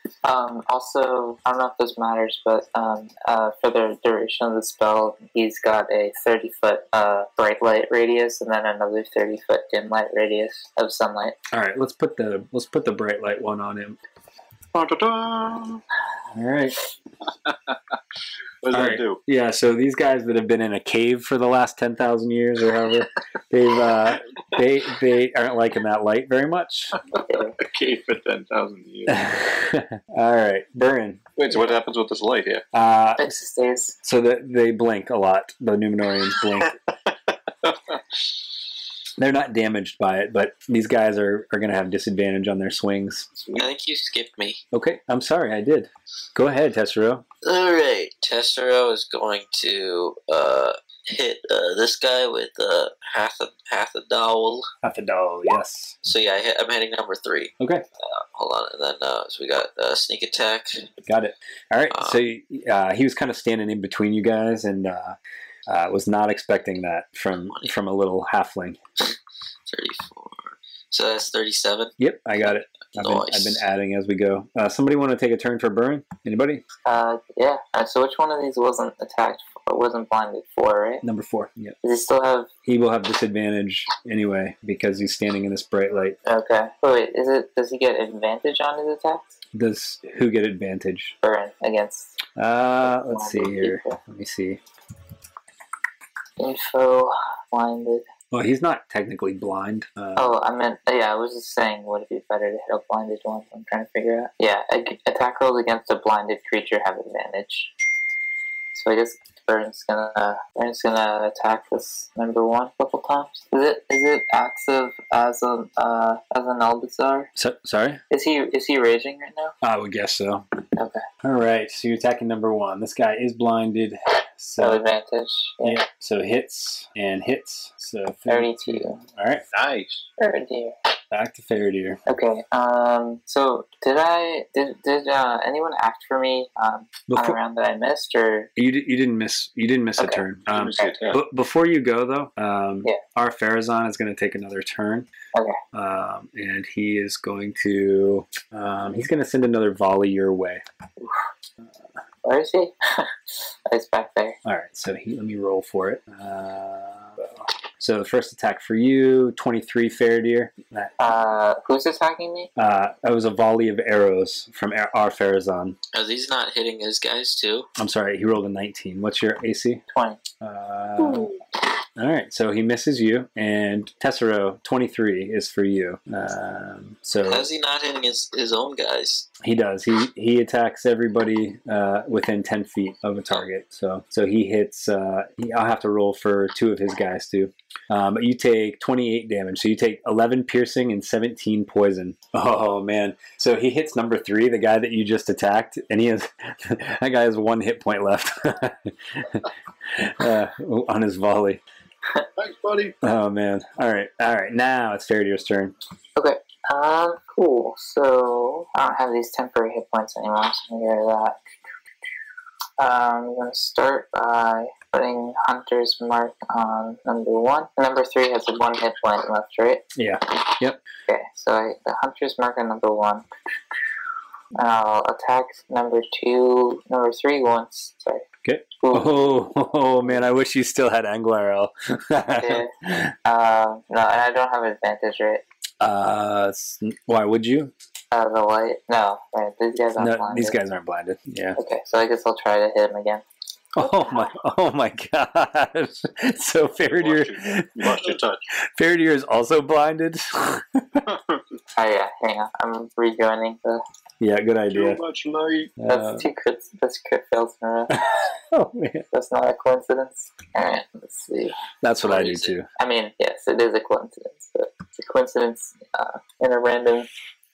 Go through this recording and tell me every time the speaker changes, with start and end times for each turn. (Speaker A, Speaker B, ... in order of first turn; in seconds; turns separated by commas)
Speaker A: 0.2-11.4, Speaker B: 11.5-14.0, Speaker C: 14.7-15.8, Speaker B: 16.4-16.8, Speaker C: 17.3-18.0, Speaker C: 18.6-19.2, Speaker B: 18.7-27.0, Speaker C: 27.1-29.4, Speaker B: 29.1-31.2, Speaker C: 31.4-32.6, Speaker B: 32.7-33.3, Speaker A: 33.2-34.0, Speaker B: 34.0-36.7, Speaker C: 37.6-38.0, Speaker B: 39.2-43.3, Speaker C: 43.4-43.7, Speaker D: 43.5-44.6, Speaker B: 44.7-47.2, Speaker D: 47.4-54.7, Speaker B: 54.8-56.0, Speaker D: 56.0-60.9, Speaker B: 61.0-68.8, Speaker D: 61.9-62.2, Speaker D: 69.7-73.6, Speaker B: 72.0-76.6, Speaker A: 76.8-81.0, Speaker B: 81.0-81.8, Speaker A: 81.8-82.5, Speaker B: 82.7-86.2, Speaker A: 86.2-89.4, Speaker B: 89.5-91.2, Speaker A: 91.2-92.2, Speaker B: 92.4-94.6, Speaker A: 92.8-94.0, Speaker A: 96.4-98.1, Speaker B: 98.3-100.3, Speaker A: 100.2-107.7, Speaker A: 108.7-117.3, Speaker B: 117.3-118.0, Speaker A: 118.1-119.5, Speaker B: 119.6-120.5, Speaker A: 120.8-121.0, Speaker B: 121.2-124.8, Speaker A: 124.6-125.8, Speaker B: 125.6-129.4, Speaker A: 128.3-129.0, Speaker C: 129.5-130.1, Speaker A: 130.2-130.8, Speaker B: 131.1-132.0, Speaker A: 132.1-138.5, Speaker B: 137.1-137.4, Speaker B: 138.6-145.1, Speaker A: 140.0-140.2, Speaker C: 140.5-141.2, Speaker A: 145.3-145.6, Speaker B: 145.7-150.6, Speaker A: 152.2-153.1, Speaker A: 153.7-154.4, Speaker B: 154.4-161.0, Speaker A: 161.0-162.5, Speaker B: 162.6-165.8, Speaker D: 165.9-167.7, Speaker B: 167.8-169.8, Speaker A: 169.9-170.2, Speaker B: 170.4-171.4, Speaker B: 172.0-177.5, Speaker D: 177.3-179.3, Speaker B: 179.4-201.6, Speaker C: 202.4-203.0, Speaker B: 203.0-205.8, Speaker A: 206.2-211.4, Speaker A: 212.8-219.9, Speaker B: 219.9-220.8, Speaker A: 221.1-223.3, Speaker A: 224.6-228.3, Speaker B: 228.4-233.1, Speaker A: 228.8-229.3, Speaker A: 232.3-232.7, Speaker A: 233.2-235.4, Speaker B: 235.8-237.7, Speaker A: 238.1-240.6, Speaker B: 240.0-241.6, Speaker A: 241.6-243.2, Speaker B: 243.8-251.1, Speaker C: 246.9-248.4, Speaker C: 251.1-251.4, Speaker A: 251.8-253.8, Speaker B: 254.2-255.0, Speaker C: 254.7-255.7, Speaker B: 255.8-256.3, Speaker A: 255.9-258.0, Speaker B: 257.9-259.1, Speaker A: 259.1-261.6, Speaker B: 261.8-262.7, Speaker D: 262.1-262.5, Speaker A: 262.8-267.1